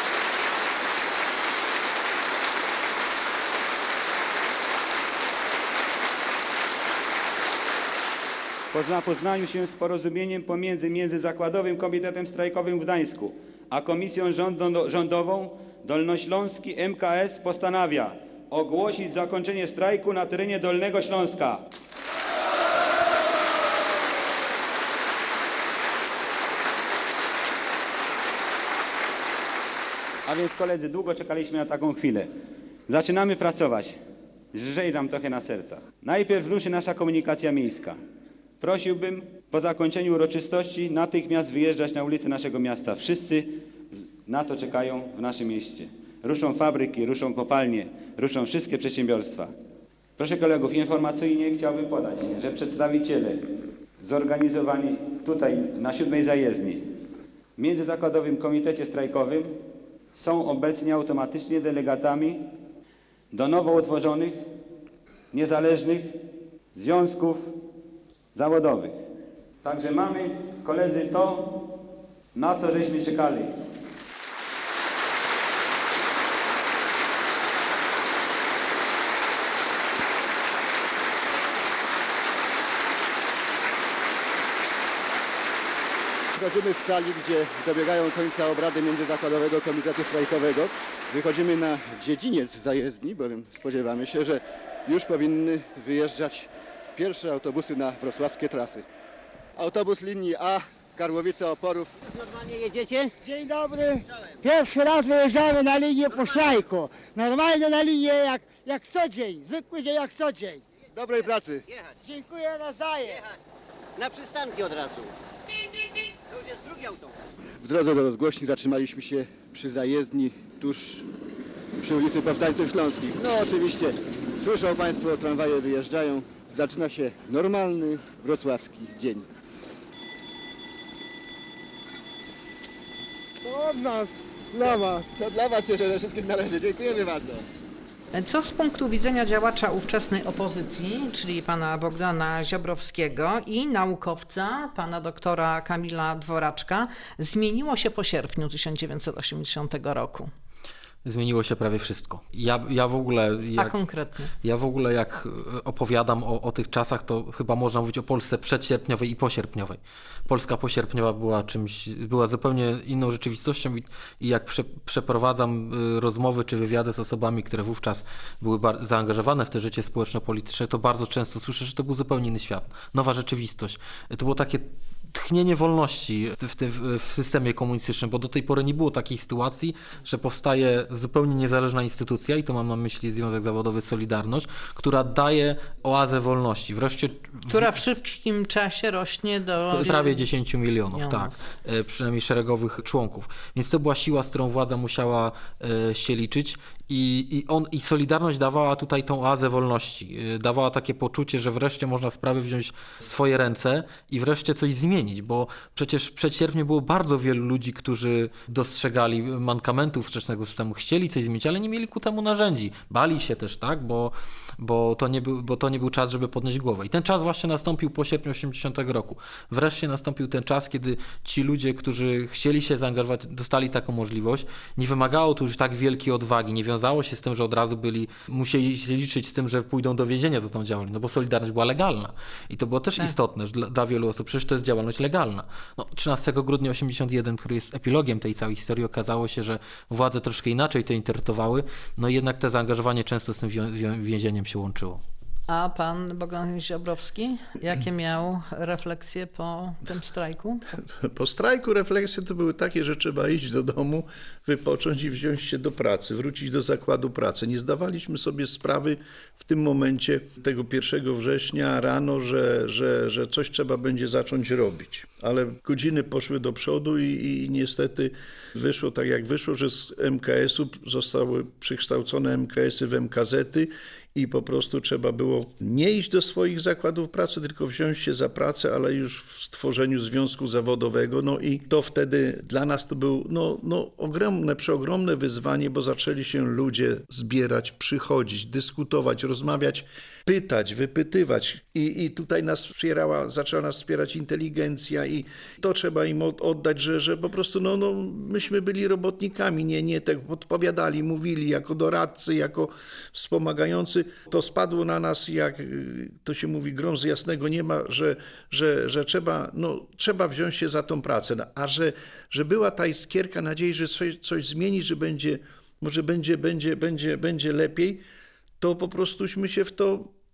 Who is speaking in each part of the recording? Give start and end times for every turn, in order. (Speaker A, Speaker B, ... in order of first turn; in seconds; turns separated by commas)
Speaker A: 8.7-21.6, Speaker A: 30.3-32.3, Speaker A: 32.9-34.0, Speaker A: 34.5-38.0, Speaker A: 38.6-43.5, Speaker A: 44.3-49.5, Speaker A: 50.2-53.4, Speaker A: 54.0-56.8, Speaker A: 57.6-59.5, Speaker A: 60.1-62.4, Speaker A: 63.3-64.3, Speaker A: 65.3-66.1, Speaker A: 66.7-67.5, Speaker A: 68.3-69.0, Speaker A: 69.6-71.6, Speaker A: 72.3-73.5, Speaker B: 86.3-98.8, Speaker B: 99.5-102.0, Speaker C: 102.1-103.1, Speaker D: 103.2-110.6, Speaker B: 110.9-111.6, Speaker D: 112.0-113.2, Speaker C: 114.0-115.1, Speaker C: 116.3-117.1, Speaker B: 117.6-121.0, Speaker B: 121.8-129.2, Speaker B: 133.4-137.4, Speaker E: 138.1-150.3, Speaker F: 151.0-153.8, Speaker E: 153.6-154.3, Speaker F: 154.4-187.7, Speaker E: 187.5-190.2, Speaker F: 189.7-245.0, Speaker E: 190.9-191.3, Speaker E: 245.5-250.7, Speaker G: 250.8-318.0, Speaker G: 318.6-320.1